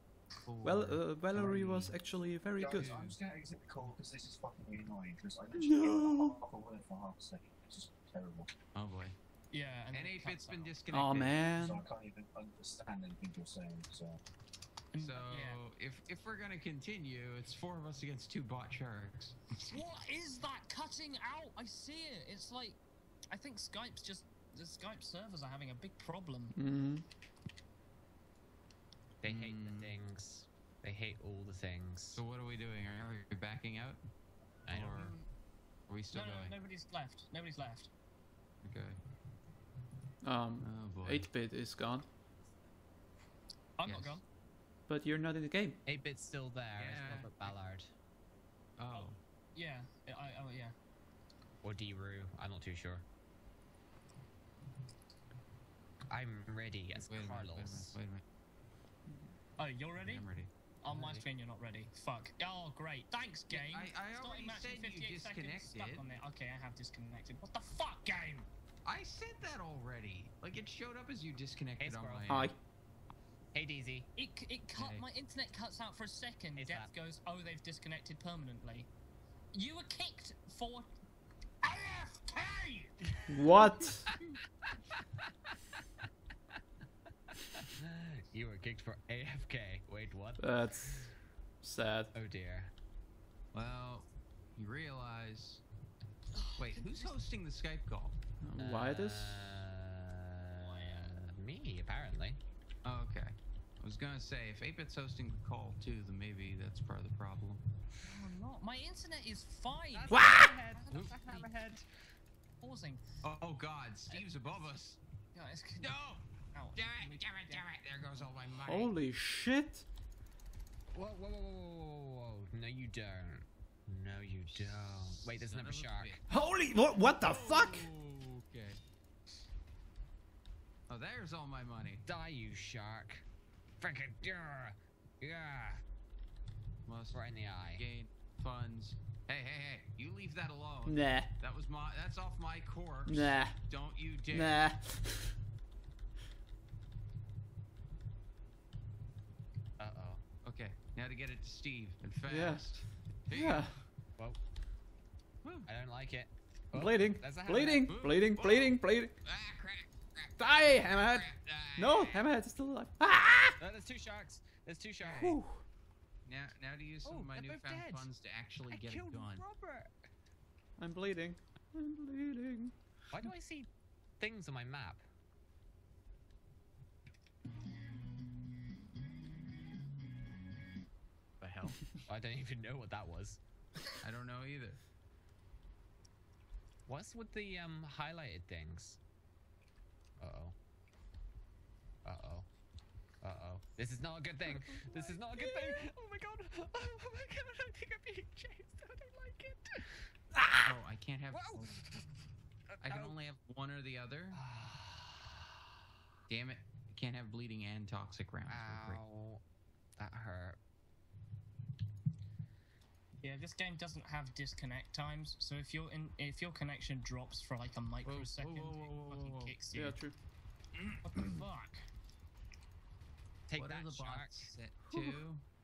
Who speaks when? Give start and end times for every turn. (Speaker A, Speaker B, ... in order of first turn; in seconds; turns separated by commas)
Speaker A: 0.4-2.0, Speaker B: 0.6-3.0, Speaker C: 2.6-8.5, Speaker A: 2.7-3.2, Speaker B: 5.5-6.3, Speaker A: 8.7-9.2, Speaker D: 9.5-10.8, Speaker A: 9.9-11.5, Speaker B: 10.9-11.8, Speaker C: 11.6-14.2, Speaker D: 14.9-15.6, Speaker A: 15.0-19.4, Speaker D: 19.5-26.6, Speaker B: 26.6-27.0, Speaker E: 29.2-32.2, Speaker A: 29.2-29.9, Speaker A: 32.1-34.0, Speaker E: 34.6-35.1, Speaker A: 34.7-35.0, Speaker D: 34.7-35.3, Speaker A: 35.9-36.5, Speaker D: 36.1-37.9, Speaker A: 38.6-39.0, Speaker B: 40.2-42.0, Speaker A: 40.6-41.3, Speaker D: 43.8-44.2, Speaker A: 43.8-44.2, Speaker B: 44.9-45.8, Speaker E: 45.9-47.9, Speaker A: 46.7-47.3, Speaker A: 48.8-49.2, Speaker D: 48.9-50.7, Speaker E: 51.6-53.0, Speaker E: 56.1-58.0, Speaker A: 57.0-58.2, Speaker D: 59.6-60.3, Speaker A: 60.0-60.5, Speaker D: 60.8-68.5, Speaker E: 60.9-61.2, Speaker A: 63.5-66.1, Speaker A: 68.8-72.5, Speaker E: 71.8-72.4, Speaker B: 72.3-72.5, Speaker E: 73.5-74.1, Speaker D: 74.2-78.9, Speaker A: 74.7-75.1, Speaker E: 76.5-76.9, Speaker D: 79.5-80.9, Speaker D: 81.6-83.4, Speaker B: 83.3-84.1, Speaker E: 87.3-91.1, Speaker B: 90.4-91.1, Speaker B: 91.6-92.1, Speaker E: 92.1-92.7, Speaker A: 93.5-95.6, Speaker D: 96.3-97.2, Speaker A: 96.6-98.2, Speaker B: 98.4-99.6, Speaker E: 98.6-102.4, Speaker D: 100.6-101.2, Speaker A: 102.8-107.6, Speaker D: 108.0-111.5, Speaker E: 109.9-111.9, Speaker B: 110.1-110.6, Speaker D: 112.6-113.0, Speaker A: 113.2-115.0, Speaker D: 115.3-115.9, Speaker A: 115.8-118.9, Speaker D: 116.5-118.3, Speaker B: 118.6-119.8, Speaker E: 120.9-126.2, Speaker A: 124.5-126.2, Speaker B: 126.3-127.9, Speaker A: 127.2-128.8, Speaker A: 130.9-132.0, Speaker E: 132.1-133.2, Speaker E: 133.8-135.8, Speaker A: 136.8-137.2, Speaker E: 137.1-137.8, Speaker A: 137.7-144.7, Speaker B: 140.8-141.3, Speaker B: 143.1-143.7, Speaker B: 144.3-145.3, Speaker E: 149.8-150.2, Speaker A: 150.4-153.7, Speaker B: 152.3-153.8, Speaker A: 155.4-155.7, Speaker E: 155.7-157.9, Speaker B: 156.7-159.2, Speaker A: 157.9-160.4, Speaker B: 160.4-163.6, Speaker A: 160.9-162.2, Speaker E: 163.6-165.3, Speaker A: 165.0-165.4, Speaker B: 165.1-165.6, Speaker A: 166.2-169.4, Speaker E: 167.0-168.1, Speaker E: 168.7-169.9, Speaker B: 170.8-172.7, Speaker E: 173.1-173.7, Speaker E: 174.2-175.0, Speaker A: 181.4-181.9, Speaker E: 181.9-183.4, Speaker A: 184.0-184.8, Speaker E: 186.9-189.0, Speaker E: 190.2-190.5, Speaker E: 192.0-192.5, Speaker E: 193.2-200.1, Speaker B: 194.4-195.9, Speaker B: 200.3-200.8, Speaker A: 200.6-201.8, Speaker E: 201.3-202.1, Speaker E: 202.7-203.1, Speaker A: 202.8-204.4, Speaker E: 204.3-205.4, Speaker A: 206.3-209.0, Speaker E: 208.5-209.4, Speaker E: 210.0-210.6, Speaker D: 213.2-220.0, Speaker A: 218.0-219.6, Speaker B: 219.7-220.1, Speaker D: 221.0-221.8, Speaker E: 223.5-224.5, Speaker A: 223.5-225.4, Speaker B: 224.9-225.2